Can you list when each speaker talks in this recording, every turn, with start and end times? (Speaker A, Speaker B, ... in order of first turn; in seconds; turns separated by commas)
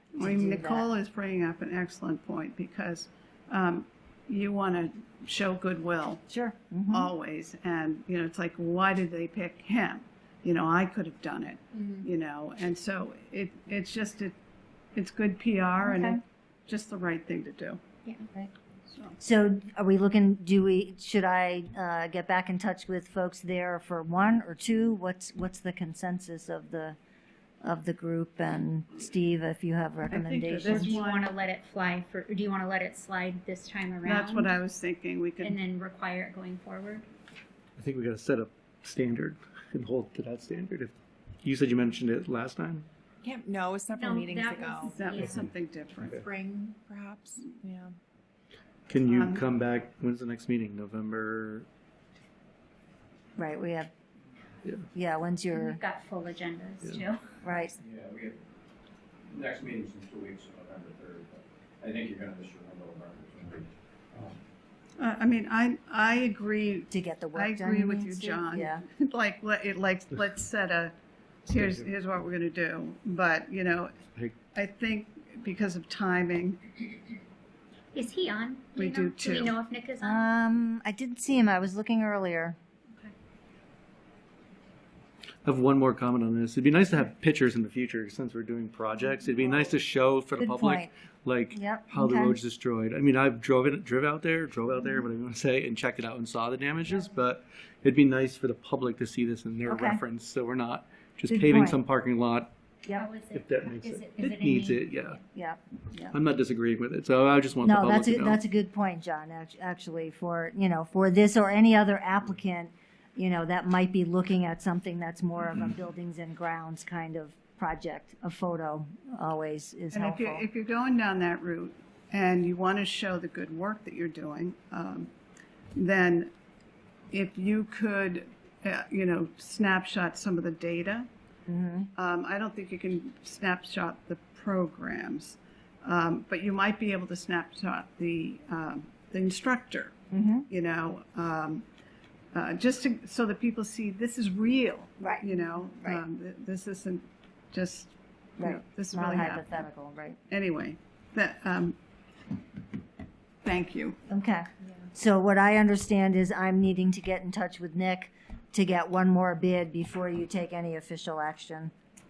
Speaker A: 0.1-6.2, Speaker B: 0.2-0.8, Speaker B: 6.3-7.1, Speaker A: 6.9-14.3, Speaker A: 14.9-17.8, Speaker B: 15.8-16.2, Speaker A: 18.9-19.1, Speaker B: 19.2-27.0, Speaker B: 27.6-31.0, Speaker A: 30.1-31.3, Speaker C: 30.6-34.5, Speaker A: 34.0-35.6, Speaker C: 35.4-37.0, Speaker D: 37.8-42.9, Speaker E: 43.2-45.2, Speaker C: 44.0-45.4, Speaker A: 44.8-46.2, Speaker E: 46.1-47.9, Speaker D: 48.9-51.6, Speaker A: 49.0-49.5, Speaker B: 53.4-53.9, Speaker B: 54.9-55.8, Speaker C: 55.5-57.2, Speaker B: 57.4-57.7, Speaker F: 57.8-58.4, Speaker F: 59.3-64.4, Speaker A: 65.0-70.9, Speaker B: 66.9-68.8, Speaker A: 71.5-74.0, Speaker A: 74.5-76.8, Speaker C: 77.9-80.3, Speaker A: 78.8-79.5, Speaker B: 80.0-82.6, Speaker D: 85.4-102.5, Speaker B: 90.4-90.9, Speaker B: 91.5-92.4, Speaker B: 99.7-100.0, Speaker B: 101.3-101.8, Speaker C: 103.0-105.2, Speaker D: 103.3-105.2, Speaker B: 105.3-106.1, Speaker D: 106.1-108.4, Speaker B: 107.6-120.4, Speaker A: 119.9-125.1, Speaker A: 125.7-126.3, Speaker A: 127.1-131.1, Speaker B: 131.5-131.9, Speaker A: 131.9-139.9, Speaker B: 140.1-140.5, Speaker A: 140.5-141.6, Speaker A: 142.3-149.6, Speaker B: 145.0-146.0, Speaker B: 148.4-150.2, Speaker A: 150.3-151.8, Speaker A: 153.4-154.0, Speaker B: 154.1-161.7